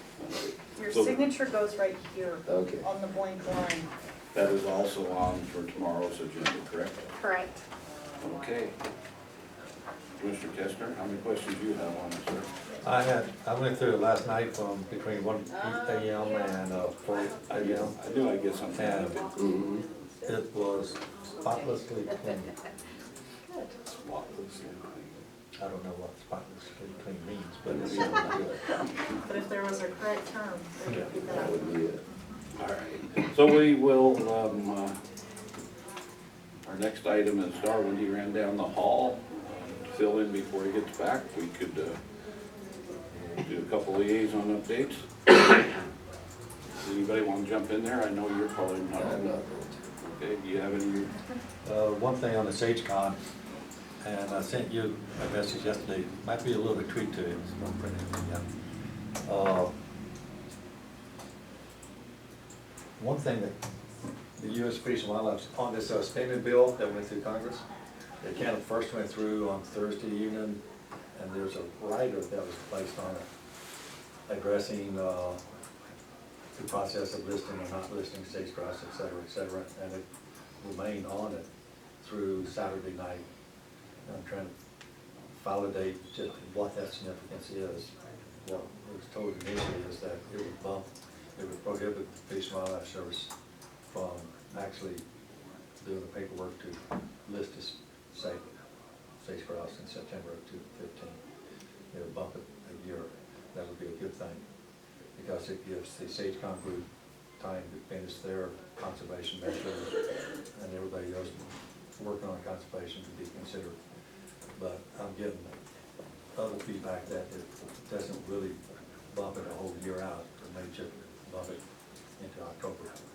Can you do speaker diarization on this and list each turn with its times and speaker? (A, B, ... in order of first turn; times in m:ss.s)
0:00.2-0:01.3 A
0:00.8-0:03.9 B
0:02.5-0:02.9 C
0:04.3-0:07.1 A
0:07.2-0:07.6 B
0:08.2-0:08.8 A
0:10.2-0:12.5 A
0:12.8-0:18.0 D
0:17.5-0:19.3 A
0:18.8-0:19.3 D
0:19.4-0:19.8 C
0:20.2-0:22.5 D
0:23.8-0:25.2 A
0:25.6-0:28.6 D
0:27.7-0:28.4 A
0:29.2-0:32.4 B
0:31.2-0:32.0 C
0:32.6-0:35.0 A
0:36.6-0:42.0 A
0:43.4-0:45.0 A
0:46.8-0:49.3 A
0:49.0-0:49.8 C
0:50.0-0:51.1 A
0:51.6-0:53.2 D
0:54.0-0:58.4 D
0:59.2-0:59.7 D
1:03.0-1:03.5 D
1:04.4-1:07.6 D
1:08.2-1:10.6 D
1:11.1-1:13.3 D
1:14.3-1:15.4 D
1:16.6-1:20.0 D
1:20.6-1:21.5 D
1:22.0-1:23.2 D
1:24.1-1:24.5 D
1:25.4-1:33.3 D
1:33.8-1:35.0 D
1:35.8-1:38.4 D
1:39.2-1:41.2 D
1:41.9-1:44.4 D
1:45.2-1:46.9 D
1:47.4-1:50.0 D
1:50.5-1:53.8 D
1:54.6-1:55.5 D
1:56.4-1:58.6 D
1:59.1-2:01.6 D
2:02.2-2:03.0 D